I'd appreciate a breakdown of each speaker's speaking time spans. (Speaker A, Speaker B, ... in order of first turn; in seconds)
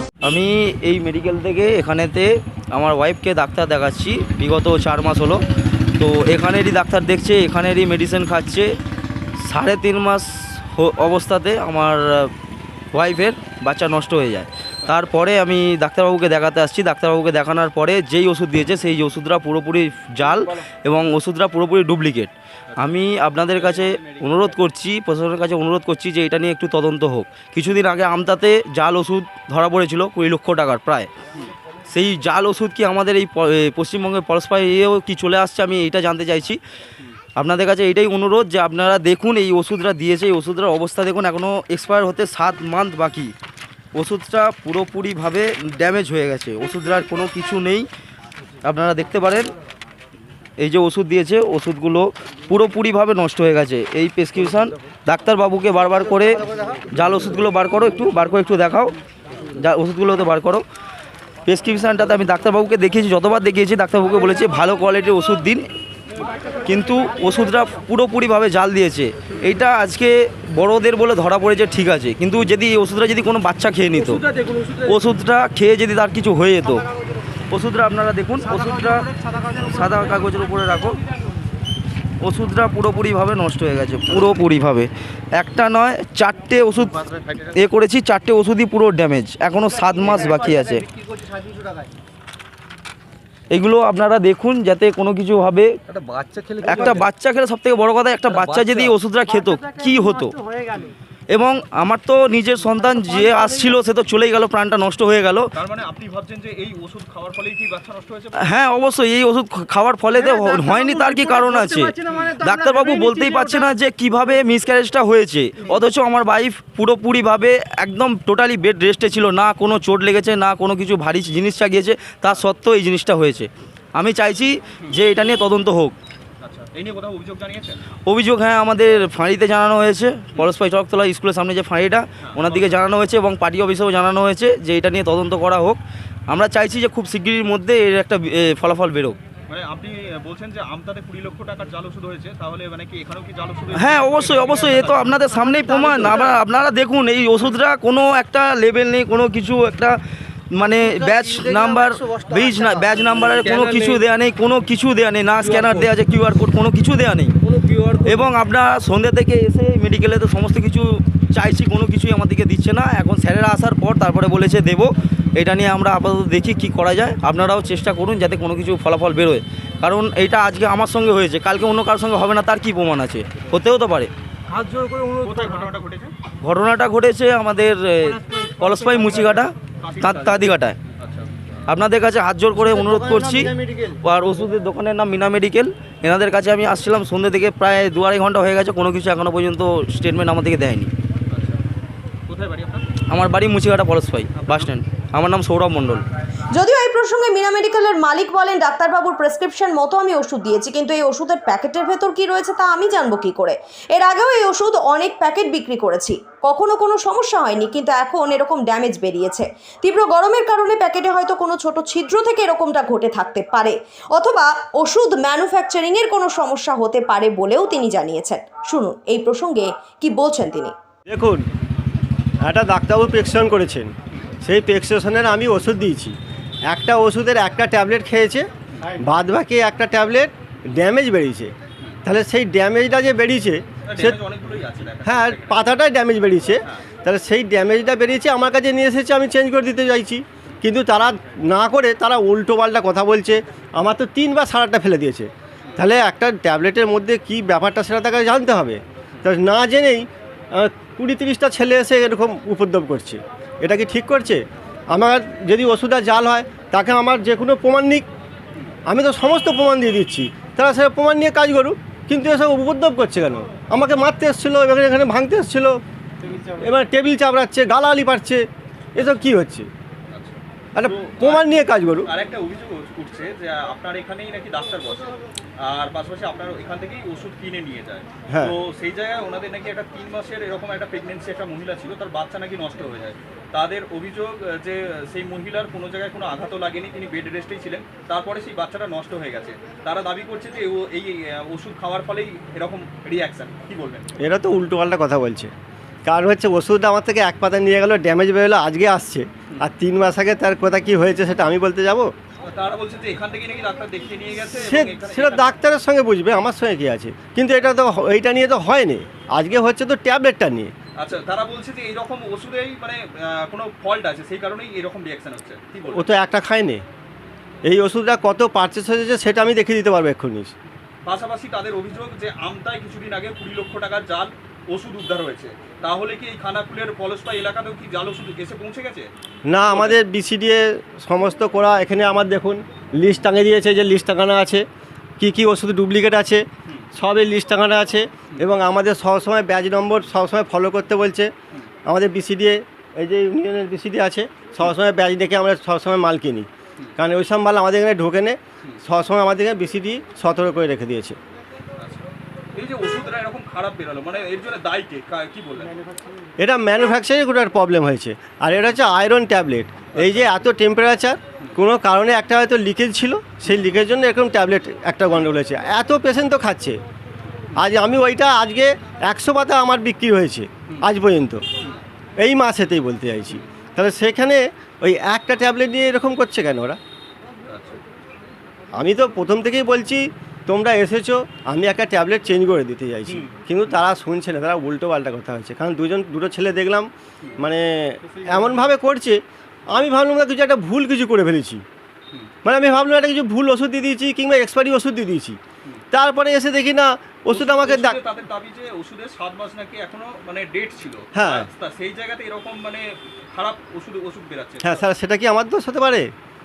Speaker A: 0.2-5.4, 6.0-8.7, 9.4-12.3, 12.9-31.1, 31.9-36.6, 37.4-43.3, 43.9-47.9, 48.6-49.5, 50.6-58.9, 59.5-60.6, 61.5-65.7, 66.7-76.8, 77.5-81.0, 82.2-90.8, 93.5-95.8, 96.6-100.3, 101.3-105.5, 108.3-126.0, 128.1-139.2, 143.7-150.0, 150.5-157.3, 158.0-174.1, 176.4-180.8, 181.7-190.9, 193.1-196.1
Speaker B: 105.5-108.5, 126.4-127.8, 132.2-132.7, 139.5-145.9, 174.9-176.1, 179.8-181.3, 191.3-191.6, 192.3-192.9, 194.3-194.7, 233.9-235.8, 270.1-271.5, 272.1-275.1, 275.6-294.1, 302.4-305.6, 311.0-316.1, 321.1-329.1, 329.6-330.0, 351.8-355.8, 359.9-360.3, 377.5-377.8, 383.1-383.4, 397.3-404.9
Speaker C: 196.6-220.7
Speaker D: 221.1-221.4, 222.4-226.2, 226.7-231.5, 232.1-234.2, 235.1-258.1, 258.9-265.8, 266.6-269.7, 270.8-272.1, 278.3-278.6, 294.2-295.5, 296.1-302.1, 304.5-310.7, 315.9-316.8, 317.6-320.5, 329.5-334.6, 335.2-341.3, 341.9-351.2, 356.4-366.8, 367.6-371.4, 372.2-376.8, 378.8-391.6, 392.4-395.4, 395.9-398.0, 401.1-401.5, 404.6-406.1